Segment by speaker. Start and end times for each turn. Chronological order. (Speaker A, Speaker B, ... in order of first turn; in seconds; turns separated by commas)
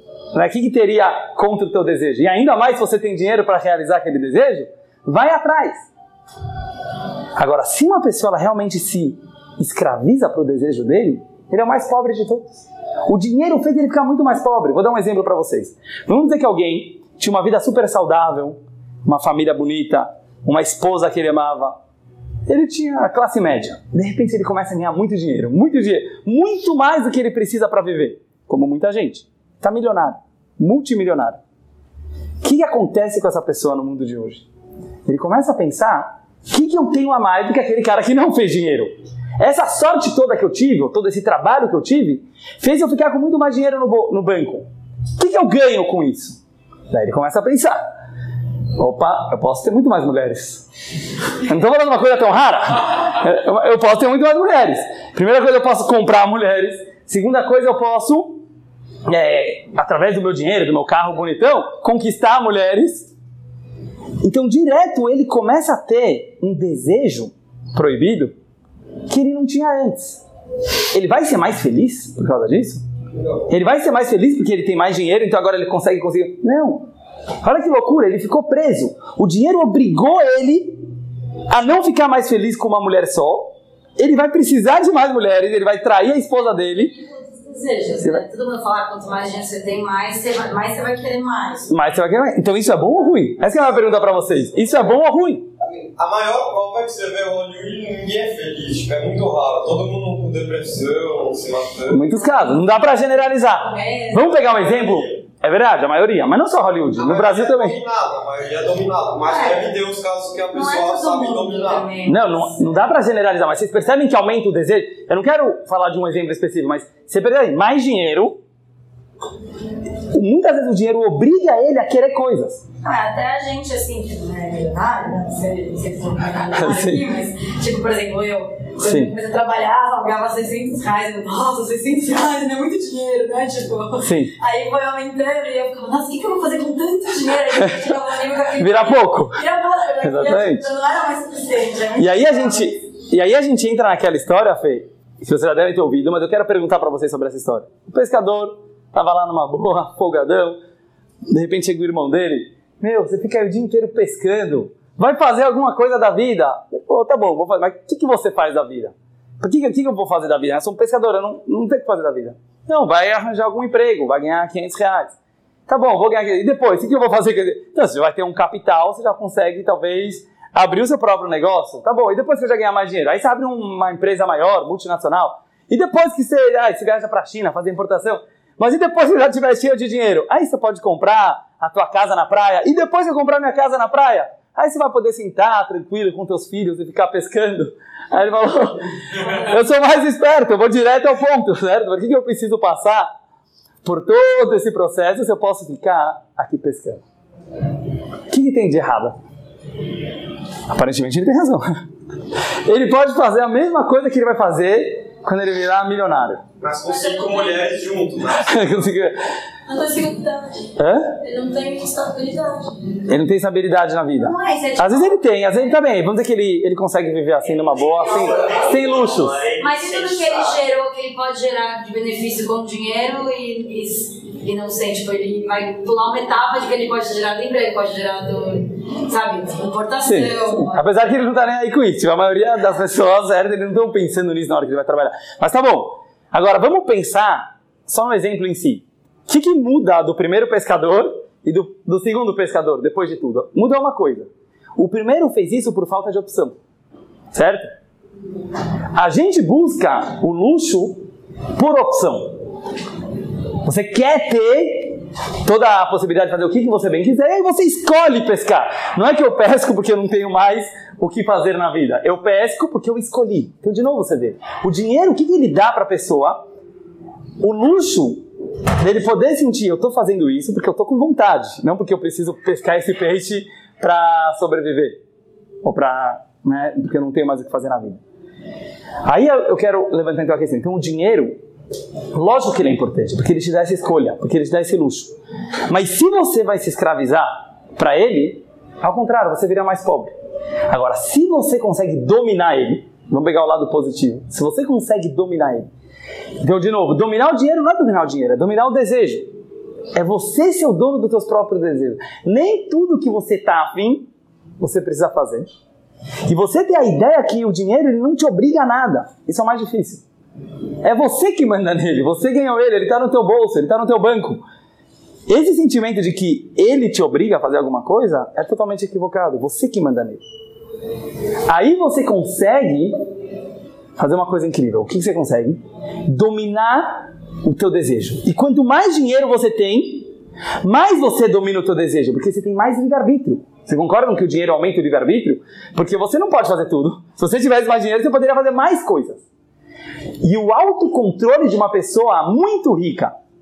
Speaker A: 0.3-5.9, Speaker A: 7.4-21.8, Speaker A: 22.5-31.4, Speaker A: 32.4-34.5, Speaker A: 35.1-46.4, Speaker A: 46.9-47.8, Speaker A: 48.8-50.7, Speaker A: 51.4-58.4, Speaker A: 59.1-63.1, Speaker A: 64.2-68.3, Speaker A: 69.1-70.2, Speaker A: 70.9-72.8, Speaker A: 73.5-76.9, Speaker A: 77.4-80.8, Speaker A: 81.5-87.0, Speaker B: 87.0-91.7, Speaker A: 91.7-95.5, Speaker C: 95.6-102.1, Speaker A: 101.9-107.8, Speaker B: 103.6-104.3, Speaker C: 104.4-105.2, Speaker C: 107.0-111.9, Speaker B: 109.3-109.6, Speaker B: 110.5-112.5, Speaker A: 112.0-118.4, Speaker A: 120.0-122.6, Speaker B: 122.8-142.7, Speaker A: 126.5-127.0, Speaker A: 128.8-129.1, Speaker A: 134.0-134.3, Speaker A: 137.6-137.9, Speaker A: 138.6-139.4, Speaker A: 140.0-140.7, Speaker A: 142.0-150.6, Speaker A: 151.3-165.2, Speaker A: 165.7-193.1, Speaker A: 193.8-197.1, Speaker A: 198.3-199.2, Speaker A: 200.7-201.8, Speaker A: 202.7-206.4, Speaker C: 206.6-208.8, Speaker B: 206.9-207.7, Speaker A: 208.4-209.2, Speaker B: 209.7-212.8, Speaker A: 210.8-211.2, Speaker A: 213.1-219.5, Speaker B: 214.2-215.2, Speaker C: 218.2-220.3, Speaker B: 219.6-230.8, Speaker A: 230.0-246.6, Speaker A: 247.3-247.7, Speaker A: 248.9-252.4, Speaker A: 253.6-266.4, Speaker A: 267.4-268.2, Speaker A: 268.8-275.0, Speaker A: 275.6-278.0, Speaker A: 279.0-281.4, Speaker A: 282.1-285.1, Speaker A: 285.7-290.1, Speaker A: 290.7-295.7, Speaker A: 296.4-299.3, Speaker A: 299.9-305.5, Speaker A: 306.3-310.1, Speaker A: 310.8-314.4, Speaker A: 315.3-320.2, Speaker A: 321.5-323.0, Speaker A: 324.0-330.1, Speaker A: 330.6-339.3, Speaker A: 340.2-343.1